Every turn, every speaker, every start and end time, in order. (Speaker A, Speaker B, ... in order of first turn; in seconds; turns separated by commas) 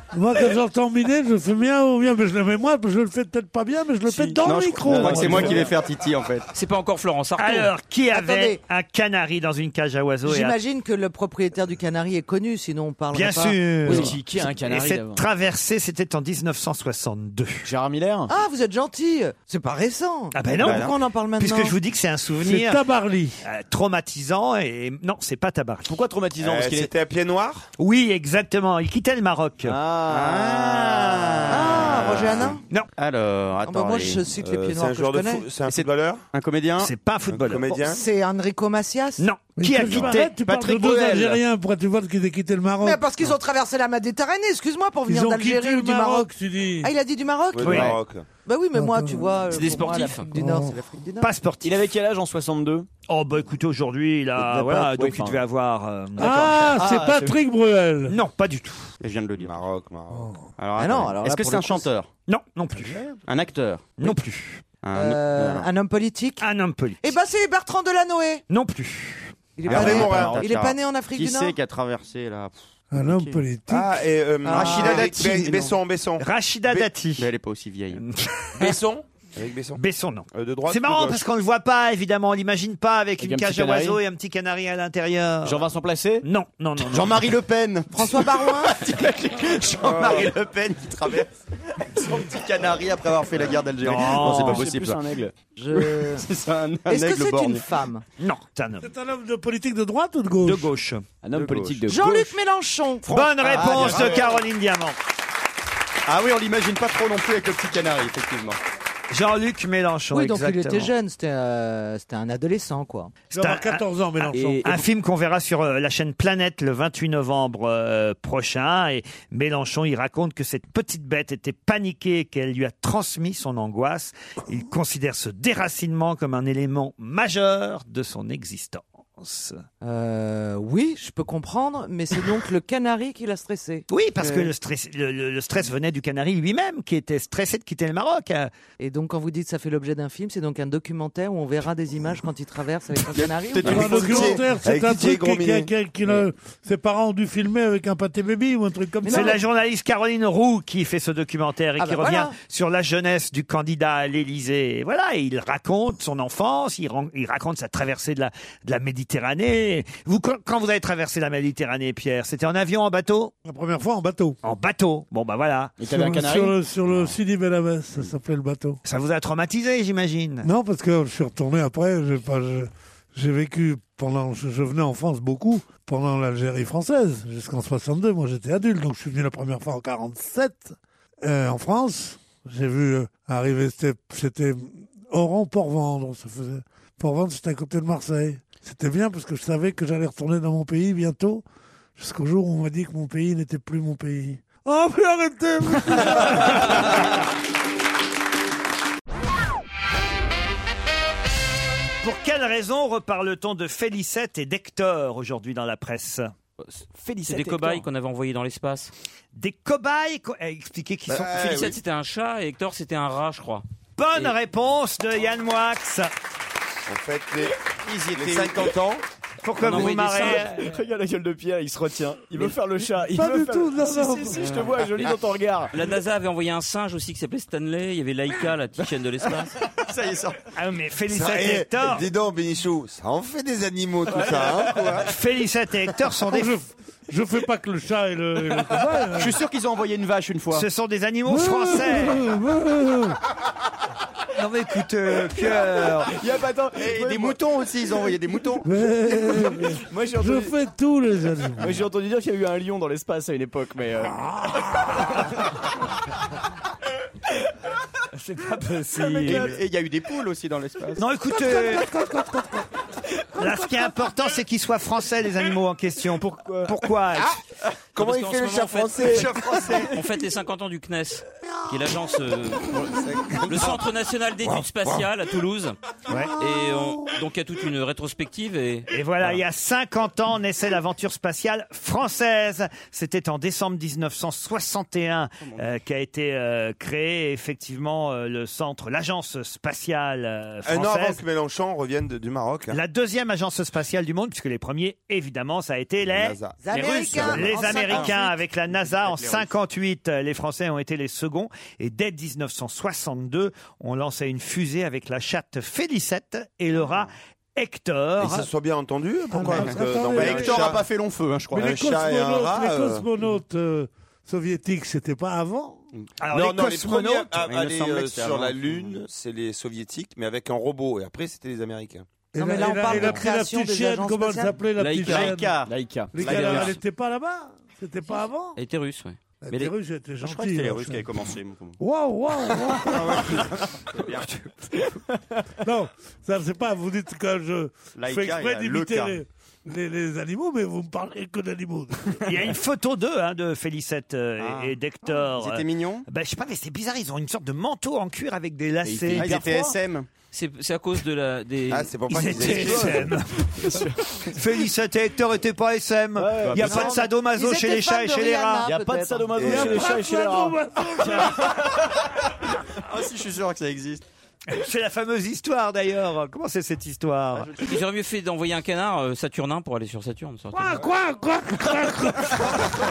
Speaker A: 0.1-5.7, Speaker B: 4.2-6.5, Speaker C: 4.9-5.6, Speaker D: 6.5-7.7, Speaker E: 7.4-10.6, Speaker F: 8.1-8.6, Speaker F: 10.2-13.9, Speaker E: 13.1-17.7, Speaker C: 13.8-15.2, Speaker C: 17.6-18.3, Speaker F: 18.3-21.8, Speaker E: 20.3-22.8, Speaker B: 20.6-20.9, Speaker A: 22.4-23.4, Speaker E: 23.4-25.9, Speaker C: 25.9-26.9, Speaker G: 26.4-27.6, Speaker E: 27.8-29.8, Speaker C: 29.6-31.1, Speaker B: 30.1-32.5, Speaker F: 31.5-32.6, Speaker B: 33.0-34.2, Speaker F: 33.6-35.5, Speaker G: 34.4-36.2, Speaker B: 36.3-36.9, Speaker E: 36.8-37.8, Speaker G: 37.3-38.0, Speaker F: 37.7-39.2, Speaker E: 39.2-40.3, Speaker A: 39.6-43.0, Speaker B: 40.4-41.4, Speaker F: 42.8-47.8, Speaker A: 45.0-46.9, Speaker G: 47.5-48.3, Speaker E: 47.6-48.0, Speaker F: 48.4-51.3, Speaker A: 48.7-49.4, Speaker D: 49.5-50.3, Speaker A: 50.3-50.8, Speaker E: 51.2-51.8, Speaker C: 51.6-52.9, Speaker E: 53.1-56.8, Speaker C: 54.4-55.4, Speaker A: 56.2-58.1, Speaker C: 56.8-57.4, Speaker E: 58.1-58.9, Speaker B: 59.0-59.5, Speaker G: 59.4-60.3, Speaker A: 60.1-60.5, Speaker B: 60.6-62.1, Speaker F: 60.8-61.8, Speaker C: 61.0-61.9, Speaker E: 62.3-63.0, Speaker A: 62.8-63.2, Speaker B: 63.2-64.1, Speaker E: 64.0-64.6, Speaker B: 64.8-65.7, Speaker F: 64.9-66.4, Speaker E: 66.4-67.1, Speaker F: 67.0-68.4, Speaker E: 68.5-69.3, Speaker F: 69.6-71.6, Speaker G: 69.7-70.4, Speaker B: 69.7-73.4, Speaker C: 69.7-70.5, Speaker A: 72.9-73.9, Speaker G: 73.7-76.9, Speaker F: 74.4-75.7, Speaker B: 74.5-75.4, Speaker E: 76.2-77.3, Speaker B: 77.2-78.0, Speaker E: 77.9-78.7, Speaker G: 78.6-79.8, Speaker E: 79.8-85.7, Speaker G: 80.3-81.2, Speaker C: 83.2-84.0, Speaker C: 85.4-86.2, Speaker E: 86.2-87.4, Speaker B: 86.8-91.3, Speaker F: 87.9-88.9, Speaker G: 89.8-90.2, Speaker B: 91.9-95.0, Speaker E: 93.8-94.7, Speaker C: 94.0-95.3, Speaker F: 95.5-96.2, Speaker B: 95.7-97.7, Speaker F: 96.9-98.0, Speaker E: 98.2-98.9, Speaker A: 98.8-100.7, Speaker E: 100.4-101.0, Speaker C: 101.2-102.3, Speaker B: 101.3-101.9, Speaker F: 101.9-103.2, Speaker E: 103.1-105.0, Speaker C: 103.4-104.2, Speaker B: 103.4-104.4, Speaker B: 106.0-108.6, Speaker E: 109.1-110.9, Speaker F: 110.1-113.2, Speaker A: 113.3-114.6, Speaker E: 113.3-129.6, Speaker C: 114.3-114.9, Speaker F: 129.8-134.5, Speaker E: 133.9-138.5, Speaker F: 138.8-144.4, Speaker B: 143.1-144.2, Speaker A: 143.6-149.4, Speaker G: 144.0-145.7, Speaker F: 149.0-149.4, Speaker E: 149.1-163.3, Speaker F: 151.8-152.3, Speaker A: 163.4-164.4, Speaker E: 164.4-165.8, Speaker C: 165.8-166.6, Speaker A: 165.8-168.8, Speaker E: 168.8-170.5, Speaker A: 170.4-191.4, Speaker A: 192.0-196.9, Speaker E: 202.0-206.3, Speaker C: 206.7-207.8, Speaker D: 207.2-208.9, Speaker E: 209.3-211.6, Speaker G: 211.1-211.8, Speaker D: 211.3-213.6, Speaker E: 214.0-216.1, Speaker G: 216.9-217.5, Speaker B: 217.9-218.8, Speaker G: 218.1-219.0, Speaker E: 219.4-220.8, Speaker D: 219.6-220.2, Speaker C: 219.7-225.8, Speaker A: 223.1-224.6, Speaker D: 225.7-229.5, Speaker B: 229.9-230.4, Speaker E: 230.6-232.1, Speaker G: 231.1-235.1, Speaker C: 234.1-234.4, Speaker B: 234.2-235.0, Speaker E: 235.0-236.5, Speaker A: 236.3-239.4, Speaker B: 239.2-240.7, Speaker E: 240.5-242.2, Speaker A: 241.3-243.2, Speaker E: 244.3-246.1, Speaker C: 246.1-247.4, Speaker B: 246.7-248.7, Speaker A: 248.6-251.8, Speaker C: 249.3-250.5, Speaker C: 251.6-254.1, Speaker A: 254.1-255.1, Speaker E: 258.1-259.5, Speaker B: 259.2-261.0, Speaker C: 259.2-259.5, Speaker E: 261.0-261.9, Speaker A: 261.3-262.6, Speaker E: 263.4-267.4, Speaker C: 266.2-266.8, Speaker G: 267.9-269.8, Speaker D: 267.9-269.2, Speaker B: 269.0-270.0, Speaker C: 269.0-269.3, Speaker D: 269.8-272.8, Speaker G: 272.8-273.8, Speaker D: 273.4-275.8, Speaker G: 274.4-275.1, Speaker D: 276.4-279.4, Speaker A: 276.6-276.9, Speaker E: 278.9-291.2, Speaker B: 285.4-285.8, Speaker G: 290.6-292.8, Speaker E: 292.7-308.5, Speaker G: 296.1-297.6, Speaker F: 296.6-298.4, Speaker B: 296.7-298.1, Speaker B: 298.7-299.5, Speaker G: 308.2-310.8, Speaker A: 309.3-310.8, Speaker B: 309.5-311.7, Speaker A: 311.5-315.8, Speaker G: 311.6-313.1, Speaker E: 316.2-317.5, Speaker G: 316.3-322.1, Speaker B: 317.4-319.0, Speaker A: 322.3-325.6, Speaker F: 322.4-324.6, Speaker B: 324.9-326.7, Speaker C: 325.7-326.7, Speaker A: 326.1-328.6, Speaker D: 328.6-329.7, Speaker A: 329.4-331.1, Speaker B: 330.2-331.8, Speaker A: 331.8-333.4, Speaker B: 332.9-334.3, Speaker A: 335.6-342.2, Speaker B: 337.9-339.2, Speaker E: 342.2-349.4, Speaker B: 344.4-346.1, Speaker C: 348.8-349.7, Speaker B: 349.1-350.1, Speaker D: 350.3-352.0, Speaker G: 351.7-353.1, Speaker E: 352.1-353.4, Speaker B: 352.6-352.9, Speaker C: 353.6-354.3, Speaker E: 354.3-358.7, Speaker C: 356.2-357.0, Speaker F: 356.6-359.4, Speaker C: 358.6-361.6, Speaker G: 359.4-359.8, Speaker A: 359.4-361.5, Speaker B: 362.8-364.0, Speaker E: 364.5-367.6, Speaker D: 367.6-370.9, Speaker A: 370.5-372.7